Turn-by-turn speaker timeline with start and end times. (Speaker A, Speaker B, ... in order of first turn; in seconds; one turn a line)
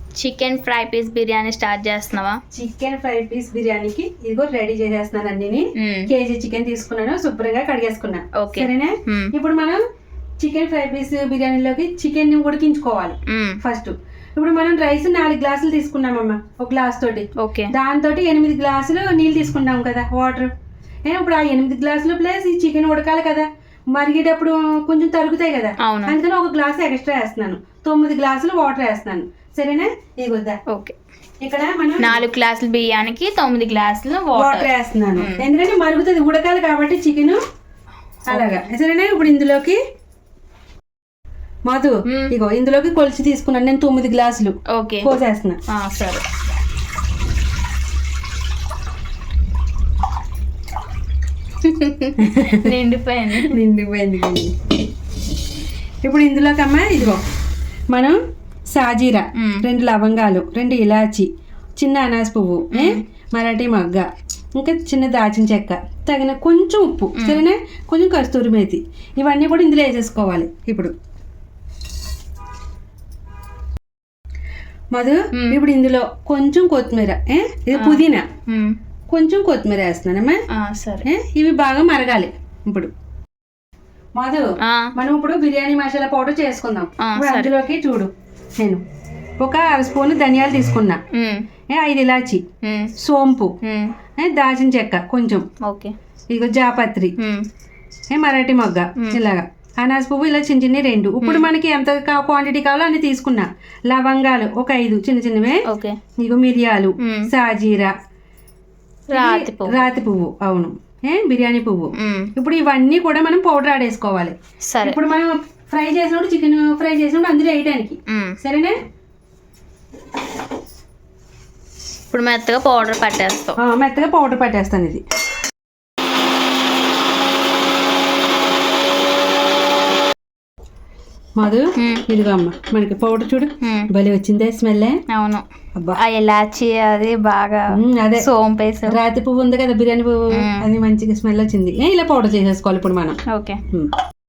Speaker A: 0.2-2.4
Speaker B: 2.5-9.8
Speaker A: 5.8-6.1
Speaker A: 8.3-9.3
Speaker B: 10.4-20.5
Speaker A: 13.2-13.6
Speaker A: 17.4-17.7
Speaker B: 21.1-30.6
Speaker A: 25.8-26.2
Speaker A: 30.7-31.0
Speaker B: 31.4-32.3
Speaker A: 32.0-35.5
Speaker B: 34.3-37.4
Speaker A: 38.3-38.6
Speaker B: 38.3-39.8
Speaker B: 41.7-45.6
Speaker A: 42.1-42.4
Speaker A: 44.7-45.1
Speaker A: 45.7-46.2
Speaker A: 51.6-53.6
Speaker B: 52.2-52.8
Speaker B: 53.5-54.5
Speaker B: 56.0-57.2
Speaker B: 57.9-58.2
Speaker B: 58.7-70.9
Speaker A: 59.4-59.6
Speaker A: 62.7-63.0
Speaker A: 67.1-67.4
Speaker B: 74.9-78.3
Speaker A: 75.3-75.6
Speaker A: 77.7-78.8
Speaker B: 79.1-80.4
Speaker A: 80.5-81.0
Speaker B: 81.0-82.9
Speaker B: 84.2-88.8
Speaker A: 84.6-84.9
Speaker A: 87.0-87.6
Speaker B: 89.4-91.0
Speaker A: 91.1-91.5
Speaker B: 91.7-92.4
Speaker A: 92.6-92.9
Speaker B: 93.0-93.5
Speaker A: 93.6-94.0
Speaker B: 94.1-95.5
Speaker A: 95.6-95.9
Speaker B: 96.3-97.1
Speaker A: 97.2-97.5
Speaker B: 98.1-105.6
Speaker A: 101.2-101.5
Speaker A: 105.7-106.0
Speaker B: 106.2-107.9
Speaker A: 107.0-107.3
Speaker A: 109.1-109.9
Speaker B: 109.1-118.8
Speaker A: 112.0-112.3
Speaker A: 114.7-115.0
Speaker A: 118.1-118.3
Speaker A: 122.1-123.5
Speaker B: 123.6-125.0
Speaker B: 131.4-134.9
Speaker A: 131.8-132.0
Speaker A: 133.6-133.9
Speaker A: 135.1-135.4
Speaker B: 135.7-136.0
Speaker A: 135.9-139.0
Speaker B: 137.8-138.3
Speaker B: 138.9-143.9
Speaker A: 140.3-140.7
Speaker A: 143.3-143.6